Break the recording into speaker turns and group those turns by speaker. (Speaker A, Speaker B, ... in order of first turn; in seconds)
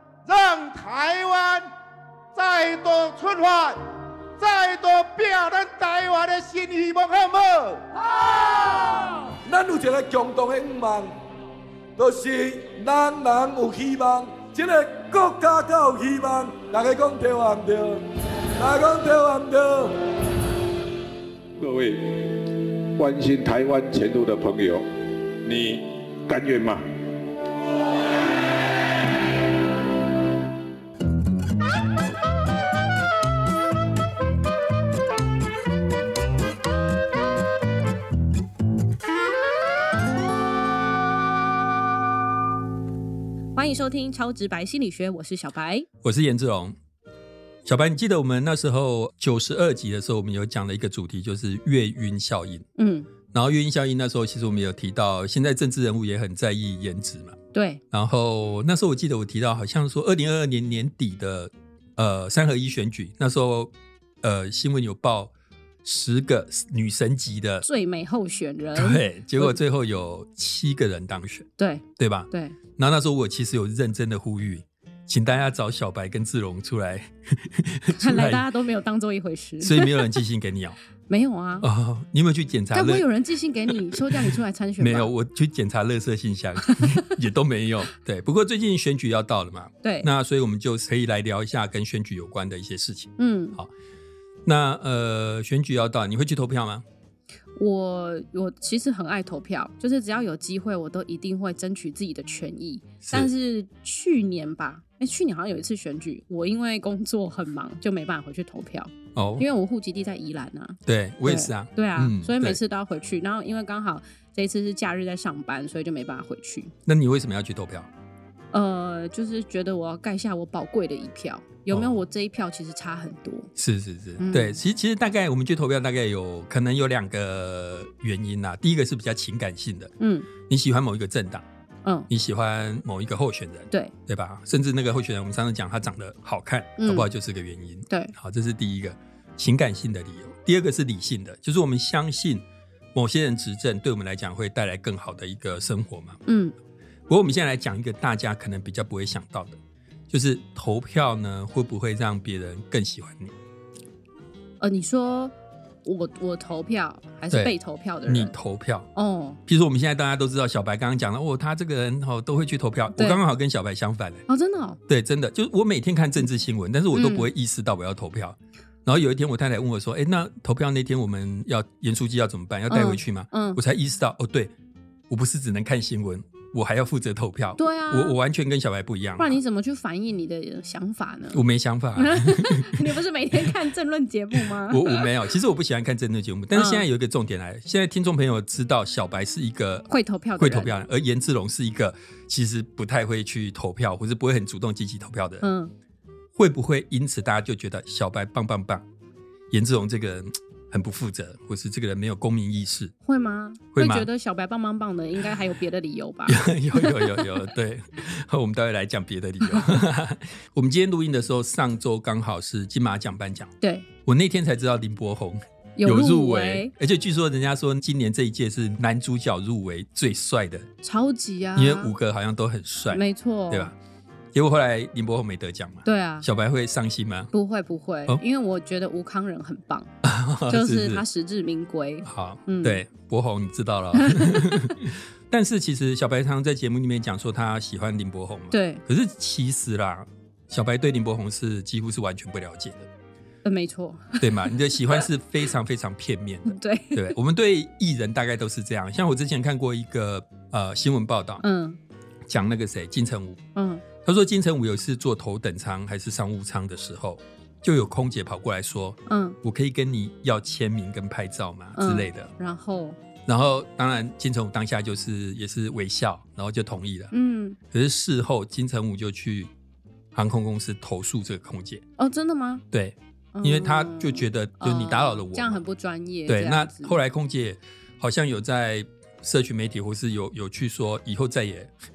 Speaker A: 0.2-1.7, 2.3-3.8, 4.4-7.8
Speaker B: 8.4-11.1, 12.0-18.0, 18.6-20.0
Speaker C: 21.6-24.8, 25.4-26.8
Speaker D: 43.5-45.9, 52.8-53.1, 57.5-57.8, 67.6-69.5, 71.6-72.6, 77.9-80.2, 81.1-81.7, 82.7-85.1, 86.6-87.1, 89.8-90.1, 93.2-93.6, 97.6-116.7, 118.5-123.5, 124.2-124.6, 130.0-130.3, 136.8-137.1, 137.9-138.1, 146.2-146.5, 154.6-158.3, 158.9-159.4, 164.3-164.8, 166.9-167.3, 172.7-173.6, 177.6-178.2, 179.2-181.4, 181.9-185.1, 186.5-186.8, 189.9-190.7, 195.4-195.7, 203.0-207.3, 213.6-213.9, 215.8-216.7, 220.8-221.9, 222.9-223.7, 225.8-226.3, 227.3-229.9, 230.5-232.8, 233.9-234.7, 238.5-238.8, 243.4-245.1, 246.4-247.2, 251.4-251.8, 253.5-253.8, 259.1-259.4, 261.8-263.0, 267.1-267.6, 272.0-272.6, 273.3-277.0
Speaker E: 46.0-46.8, 47.6-52.7, 53.3-57.4, 57.9-65.3, 65.8-67.7, 68.7-78.5, 79.6-80.8, 81.6-83.0, 83.7-93.7, 94.4-96.8, 103.0-103.3, 109.1-109.5, 110.9-112.6, 116.8-117.9, 121.7-122.0, 123.5-131.4, 132.1-146.2, 147.1-149.6, 150.1-153.3, 158.1-158.9, 159.4-164.2, 164.9-174.5, 175.1-179.4, 181.3-182.9, 184.4-195.5, 196.3-198.8, 199.5-202.9, 203.7-204.1, 206.3-213.5, 214.1-220.7, 221.5-223.7, 224.3-227.3, 230.0-231.0, 232.0-242.9, 244.2-251.4, 252.3-253.4, 254.0-262.3, 263.2-267.1, 267.7-269.5, 270.1-271.8, 272.7-275.6, 276.3-281.7